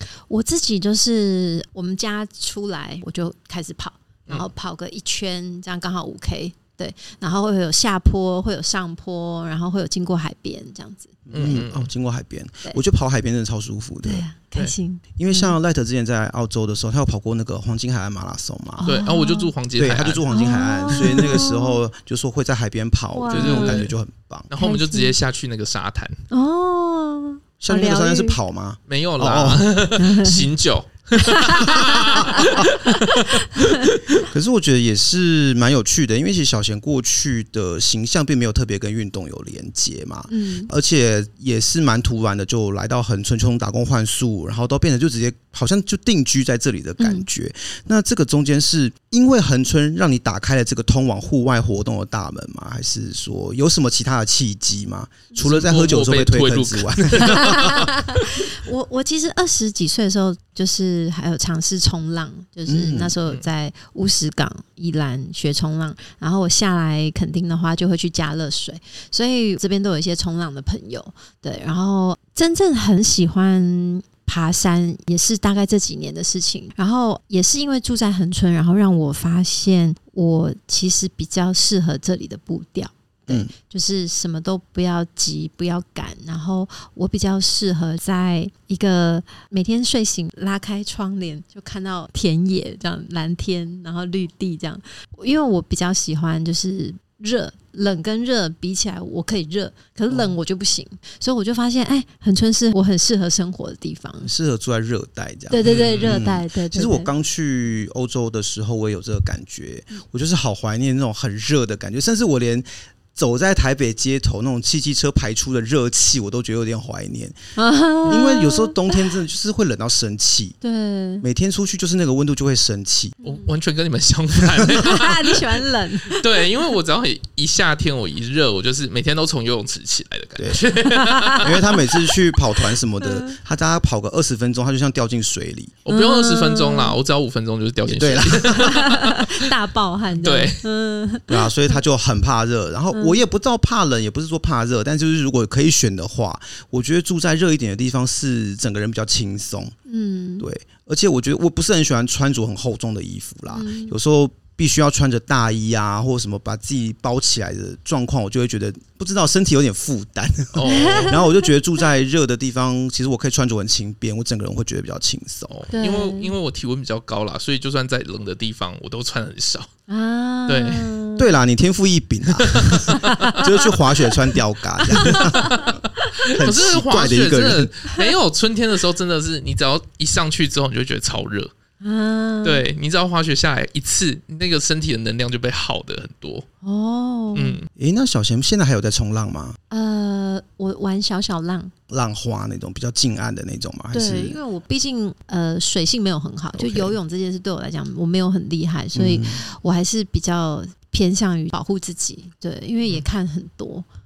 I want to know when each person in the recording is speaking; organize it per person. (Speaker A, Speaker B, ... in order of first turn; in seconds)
Speaker A: 0.3-11.6, 14.0-15.6, 18.8-19.5, 20.3-21.8, 23.1-23.8, 24.6-25.1, 26.3-28.4, 29.9-30.5, 31.2-33.9, 40.3-40.7, 47.0-47.2, 57.2-104.3, 105.5-107.1, 117.6-119.0, 120.6-121.2, 123.2-123.5, 124.7-126.5, 130.8-132.1, 133.0-133.3, 135.9-137.0, 138.5-141.5, 142.9-143.2, 149.9-150.5, 153.5-153.9, 160.6-161.5, 165.7-166.3, 169.9-171.3, 172.9-173.7, 174.9-175.7, 181.8-182.7, 186.6-187.6, 189.7-191.7, 193.9-203.8
Speaker B: 11.3-14.2, 15.2-18.8, 19.8-24.5, 27.6-29.7, 32.1-32.7, 34.2-57.9, 62.6-63.2, 104.2-117.3, 118.0-120.6, 121.2-123.2, 131.4-135.8, 137.9-138.7, 141.3-149.7, 150.4-165.6, 171.2-175.7, 176.3-177.7, 187.8-189.6, 191.9-194.4, 196.5-197.0, 198.9-199.4
Speaker C: 11.3-11.9, 18.8-20.4, 20.9-21.3, 23.3-23.9, 24.5-26.2, 28.9-34.2, 55.4-58.0, 105.6-106.2, 123.2-131.7, 135.8-139.5, 140.2-140.6, 160.5-161.2, 165.5-169.7, 170.5-170.9, 172.4-173.4, 175.1-181.5, 182.4-186.4, 187.3-187.7